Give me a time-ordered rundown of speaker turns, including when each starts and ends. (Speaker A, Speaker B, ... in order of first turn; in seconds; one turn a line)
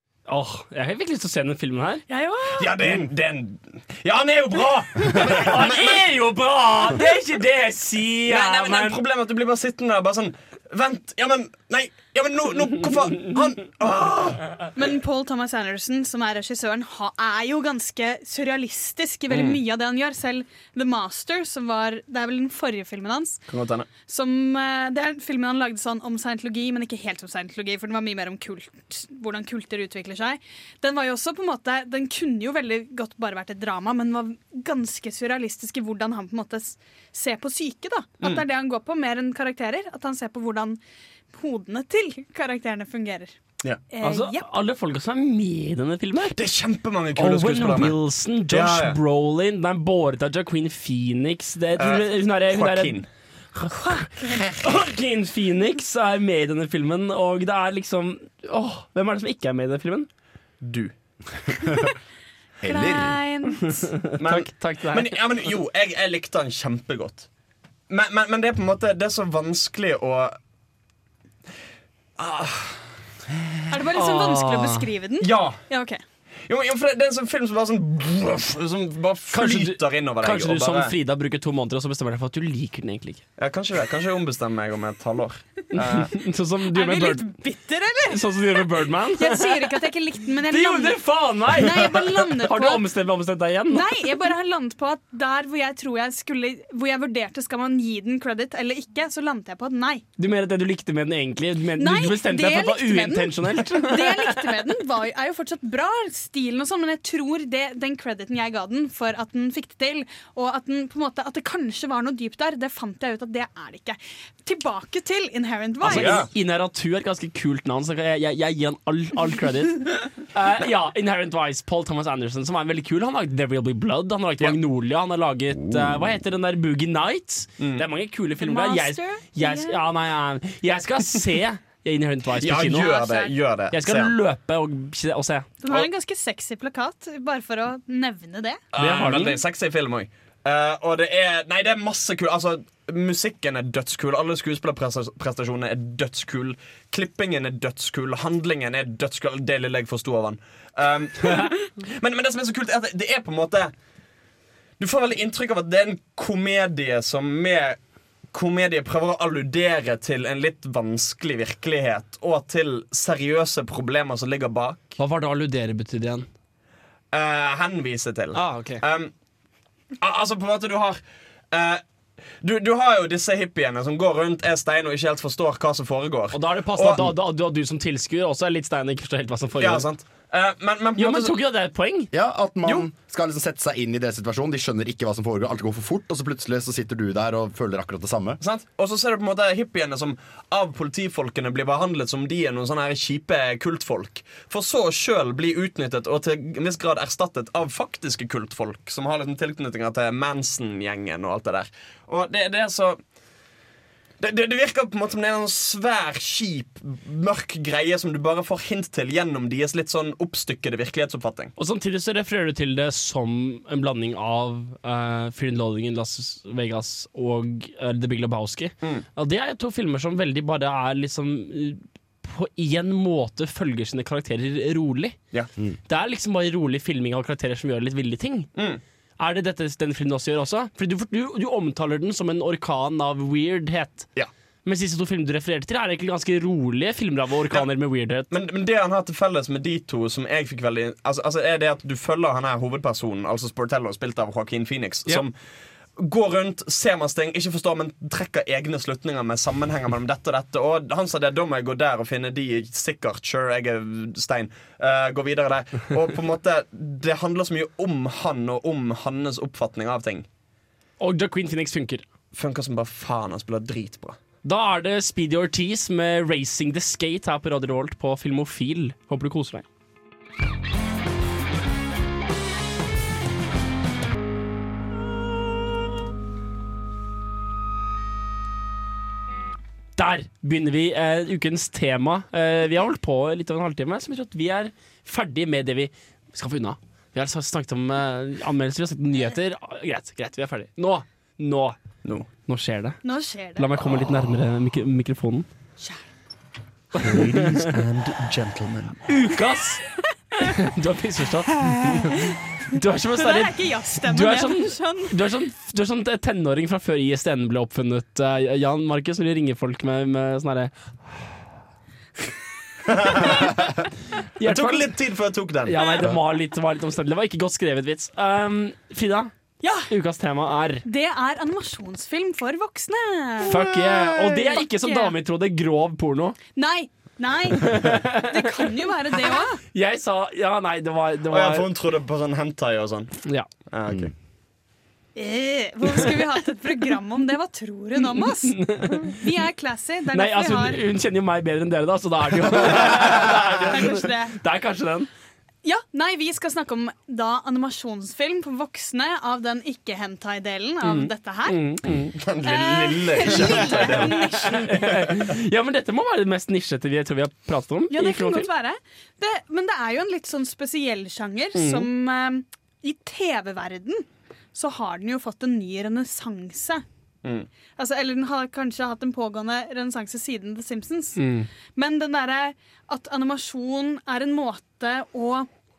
Speaker A: 0.3-2.0
Speaker B: 2.1-2.7
Speaker C: 2.6-6.1
Speaker A: 5.2-9.0
Speaker C: 8.3-14.5
Speaker B: 14.8-23.4
Speaker C: 19.3-19.6
Speaker C: 23.5-23.9
Speaker B: 24.1-40.8
Speaker B: 41.3-43.4
Speaker B: 43.9-44.5
Speaker A: 44.0-46.4
Speaker C: 46.3-48.0
Speaker A: 47.2-53.0
Speaker C: 48.5-49.0
Speaker C: 51.8-53.1
Speaker B: 53.8-54.5
Speaker A: 54.6-60.1
Speaker C: 60.6-60.9
Speaker D: 62.6-63.2
Speaker B: 62.6-63.9
Speaker A: 64.0-65.2
Speaker C: 64.2-67.3
Speaker C: 67.9-70.4
Speaker C: 72.2-73.0
Speaker B: 73.7-76.0
Speaker A: 73.9-74.9
Speaker C: 75.2-75.6
Speaker C: 76.5-80.9
Speaker A: 79.3-83.2
Speaker C: 83.4-86.1
Speaker A: 85.8-87.2
Speaker B: 86.7-92.8
Speaker A: 88.1-89.5
Speaker A: 90.5-93.9
Speaker B: 93.7-100.0
Speaker A: 100.2-104.5
Speaker B: 101.8-116.3
Speaker C: 115.8-116.3
Speaker A: 115.8-132.9
Speaker D: 125.5-126.2
Speaker C: 127.6-127.8
Speaker B: 128.4-129.8
Speaker C: 132.4-134.1
Speaker B: 132.7-133.3
Speaker A: 133.7-135.5
Speaker B: 135.6-138.6
Speaker C: 138.7-153.7
Speaker A: 138.8-139.4
Speaker C: 154.8-157.8
Speaker C: 158.3-165.0
Speaker A: 165.0-166.3
Speaker C: 167.1-169.1
Speaker A: 168.3-168.8
Speaker C: 170.0-171.0
Speaker C: 171.5-171.8
Speaker C: 172.4-177.1
Speaker A: 176.3-179.8
Speaker C: 179.6-181.4
Speaker A: 181.0-182.1
Speaker D: 182.1-188.4
Speaker C: 188.4-203.0
Speaker C: 204.2-211.5
Speaker A: 211.6-225.2
Speaker A: 225.9-228.5
Speaker C: 228.6-228.8
Speaker A: 229.2-234.1
Speaker A: 234.7-238.3
Speaker C: 238.3-245.3
Speaker C: 246.0-260.3
Speaker A: 261.0-262.0
Speaker C: 262.3-264.2
Speaker A: 264.4-269.6
Speaker A: 280.0-291.8
Speaker A: 292.5-293.0
Speaker B: 293.0-293.7
Speaker A: 293.6-295.5
Speaker B: 295.8-296.1
Speaker A: 297.0-297.6
Speaker C: 297.0-299.0
Speaker A: 299.1-299.9
Speaker A: 300.4-302.1
Speaker B: 301.8-302.4
Speaker A: 302.7-310.7
Speaker B: 303.2-305.1
Speaker C: 312.9-313.4
Speaker A: 314.4-314.9
Speaker C: 314.4-315.8
Speaker A: 315.7-319.3
Speaker B: 315.8-316.1
Speaker B: 319.6-319.9
Speaker A: 319.9-320.9
Speaker B: 320.9-325.1
Speaker A: 323.5-326.4
Speaker B: 326.6-329.6
Speaker A: 327.6-328.7
Speaker A: 329.7-331.7
Speaker C: 331.3-334.1
Speaker B: 335.2-340.8
Speaker A: 338.1-339.2
Speaker A: 340.1-345.1
Speaker B: 342.8-344.3
Speaker B: 345.6-351.8
Speaker C: 350.8-351.1
Speaker A: 351.5-352.1
Speaker C: 351.9-354.6
Speaker B: 352.4-355.0
Speaker A: 353.4-358.5
Speaker B: 357.9-366.8
Speaker A: 361.6-361.9
Speaker C: 367.2-367.5
Speaker B: 367.8-371.2
Speaker A: 371.2-371.5
Speaker B: 371.7-375.5